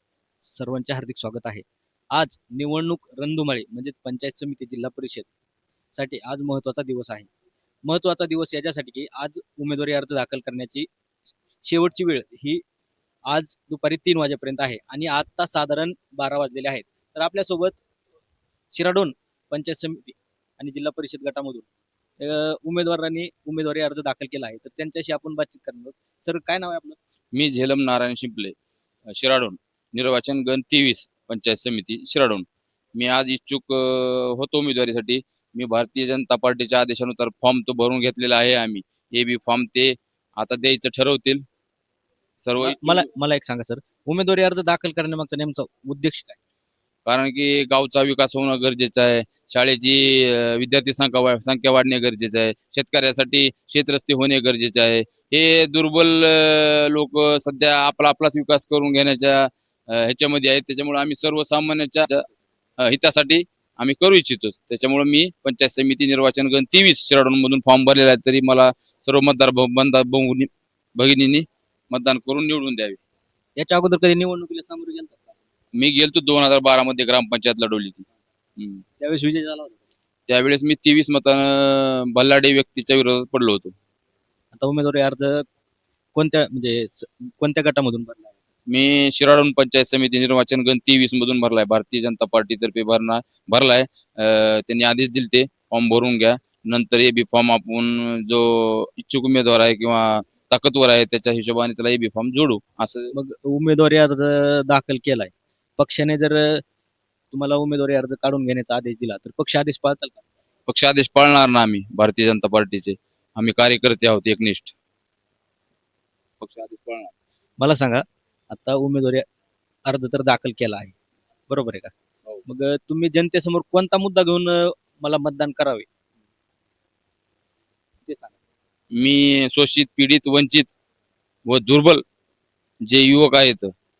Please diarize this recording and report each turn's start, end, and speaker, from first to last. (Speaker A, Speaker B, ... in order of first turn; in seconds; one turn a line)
Speaker A: 0.4-5.3
Speaker A: 5.9-7.3
Speaker A: 7.8-10.9
Speaker A: 11.6-12.6
Speaker A: 13.3-17.8
Speaker A: 18.7-21.7
Speaker A: 22.2-27.0
Speaker B: 27.3-28.6
Speaker B: 29.1-41.4
Speaker B: 42.4-43.1
Speaker A: 42.6-46.4
Speaker B: 47.0-62.3
Speaker B: 62.8-73.0
Speaker A: 73.6-75.3
Speaker B: 75.7-78.0
Speaker B: 78.6-78.8
Speaker A: 79.0-79.8
Speaker B: 80.3-83.7
Speaker A: 84.5-85.5
Speaker A: 86.1-88.3
Speaker B: 88.7-103.1
Speaker A: 103.1-106.6
Speaker A: 107.3-110.2
Speaker B: 110.7-114.7
Speaker B: 116.4-117.1
Speaker A: 117.6-119.2
Speaker A: 119.8-120.9
Speaker A: 121.5-121.9
Speaker A: 122.4-125.9
Speaker A: 128.1-128.4
Speaker B: 128.9-130.7
Speaker B: 131.4-132.0
Speaker B: 132.8-133.7